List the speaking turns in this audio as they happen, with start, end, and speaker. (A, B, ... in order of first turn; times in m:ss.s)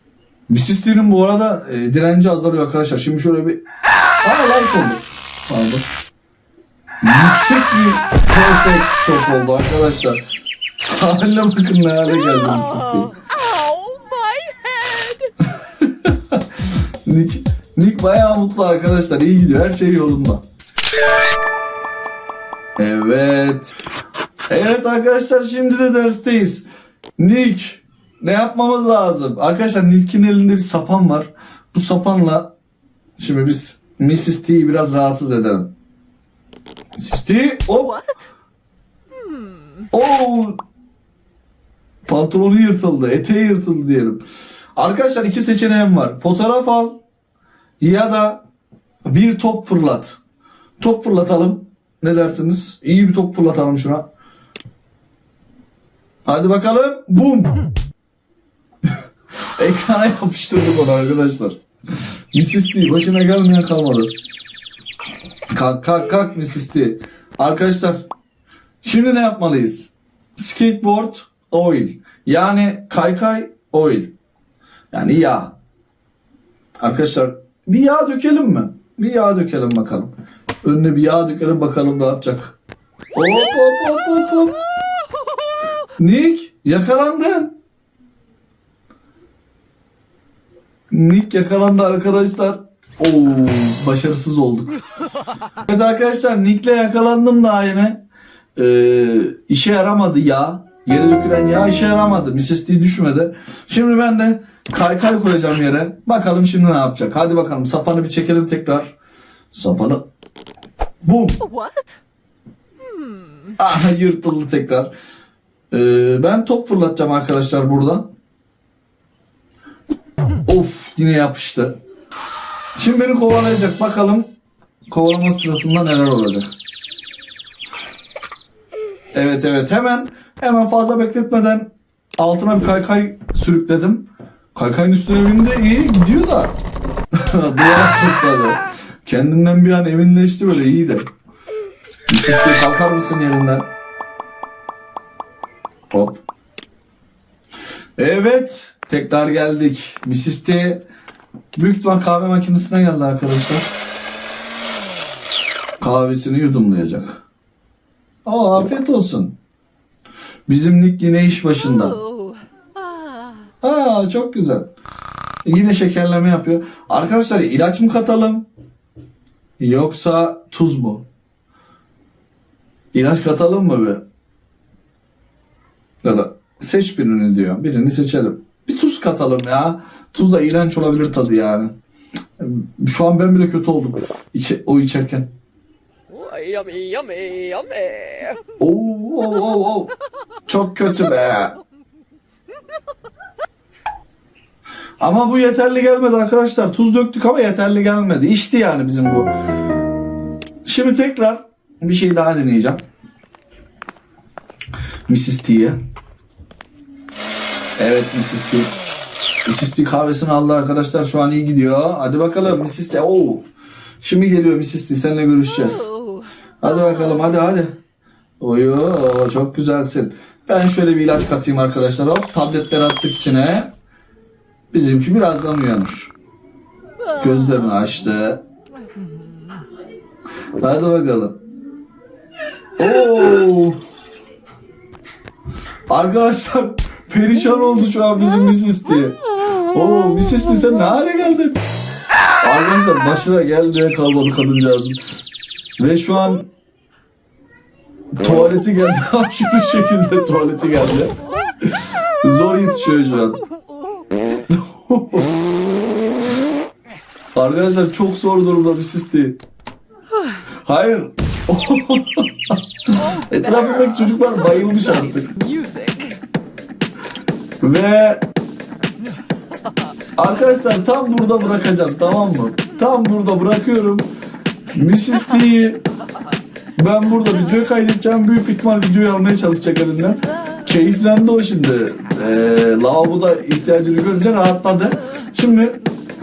0:00.5-0:03.6 A
0:04.2-0:05.8 A
0:07.0-0:10.2 A
0:10.8-0:13.1 A
0:13.2-0:15.3 B
0:15.6-0:20.4 A
0:22.8-0:23.7 A
0:24.5-0:26.6 A
0:27.2-0:32.5 A
0:33.2-0:35.7 A
0:37.0-0:38.2 A
0:39.2-0:39.6 B
0:39.9-0:40.6 A
0:42.0-0:44.2 A
0:44.8-0:47.0 A
0:47.8-0:48.4 A
0:49.0-0:50.2 A
0:50.8-0:54.0 A
0:56.2-0:57.6 A
0:59.6-1:01.6 A
1:02.3-1:04.1 A
1:05.5-1:08.1 A
1:08.8-1:14.1 A
1:14.9-1:15.6 A
1:16.8-1:20.1 A
1:20.6-1:22.6 A
1:23.1-1:24.6 A
1:26.0-1:27.6 A
1:30.9-1:34.8 A
1:35.6-1:38.0 A
1:38.6-1:48.9 A
1:49.5-1:50.0 A
1:51.0-1:51.4 A
1:51.4-1:52.0 B
1:52.9-1:53.2 B
1:53.6-1:54.9 A
1:55.7-1:58.1 A
2:00.4-2:01.8 A
2:02.8-2:04.3 A
2:04.9-2:06.5 A
2:09.1-2:16.6 A
2:17.1-2:21.1 A
2:22.1-2:23.7 A
2:25.9-2:26.2 A
2:28.0-2:30.8 A
2:31.5-2:33.7 A
2:35.8-2:37.2 A
2:38.2-2:39.4 A
2:40.5-2:42.0 A
2:42.0-2:43.3 B
2:43.6-2:44.7 A
2:45.4-2:48.4 A
2:49.6-2:51.0 A
2:52.9-2:54.0 A
2:56.0-3:01.7 A
3:02.4-3:05.3 A
3:06.1-3:08.4 B
3:08.6-3:09.9 A
3:10.5-3:11.6 A
3:15.0-3:19.3 A
3:20.6-3:22.8 A
3:25.1-3:25.8 A
3:27.8-3:28.7 A
3:29.4-3:33.4 A
3:34.0-3:35.9 A
3:35.9-3:36.2 B
3:36.6-3:37.8 A
3:38.4-3:43.7 A
3:44.7-3:46.1 A
3:47.1-3:48.4 A
3:50.6-3:51.4 A
3:52.8-3:53.8 A
3:55.9-4:01.6 A
4:02.4-4:05.0 A
4:05.8-4:06.5 A
4:08.2-4:13.4 A
4:14.4-4:15.3 A
4:17.3-4:19.4 A
4:20.6-4:25.4 A
4:25.4-4:26.2 B
4:27.6-4:28.2 A
4:30.2-4:34.1 A
4:34.7-4:35.8 A
4:36.8-4:45.8 A